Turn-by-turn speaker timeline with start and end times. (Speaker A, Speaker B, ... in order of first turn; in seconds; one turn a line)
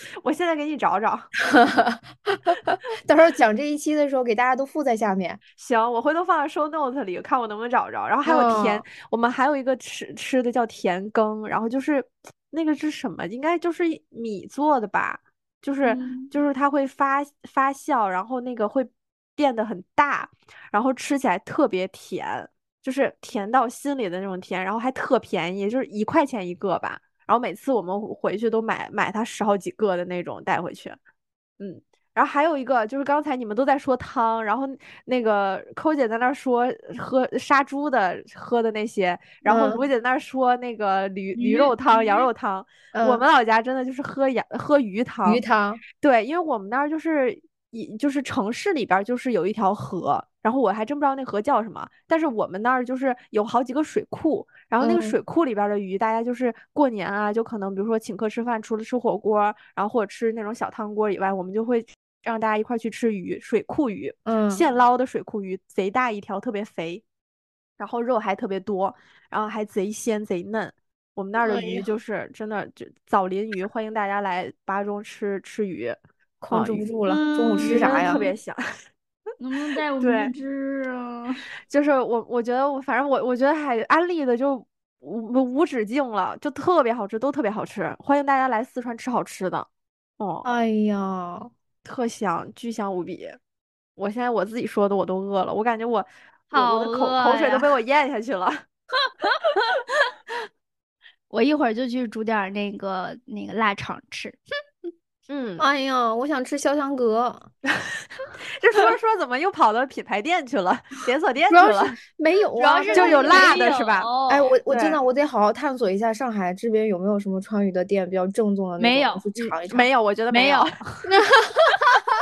Speaker A: 0.2-1.3
Speaker B: 1.4-5.4
Speaker A: 5.6-31.0
Speaker B: 8.2-8.8
Speaker C: 15.8-16.3
Speaker A: 31.6-45.4
Speaker B: 39.4-39.8
Speaker C: 41.4-42.3
Speaker B: 42.9-43.2
Speaker B: 45.2-45.8
Speaker A: 46.0-67.0
Speaker B: 54.8-55.2
Speaker B: 64.2-64.6
Speaker A: 67.8-76.0
Speaker B: 71.4-71.9
Speaker B: 76.4-78.2
Speaker A: 76.5-76.9
Speaker C: 77.0-78.3
Speaker A: 77.6-78.6
Speaker C: 79.4-81.4
Speaker A: 80.0-80.3
Speaker A: 81.7-89.7
Speaker A: 90.2-90.5
Speaker B: 90.4-91.5
Speaker A: 91.8-93.4
Speaker A: 94.0-98.7
Speaker C: 96.5-97.7
Speaker C: 99.2-99.7
Speaker C: 101.3-104.4
Speaker A: 105.3-105.6
Speaker B: 105.6-107.5
Speaker A: 108.6-112.0
Speaker B: 111.5-113.6
Speaker C: 112.6-114.5
Speaker A: 112.9-114.1
Speaker B: 114.3-119.9
Speaker A: 114.7-115.0
Speaker C: 118.8-119.3
Speaker A: 119.4-120.8
Speaker C: 120.3-120.8
Speaker B: 121.0-122.0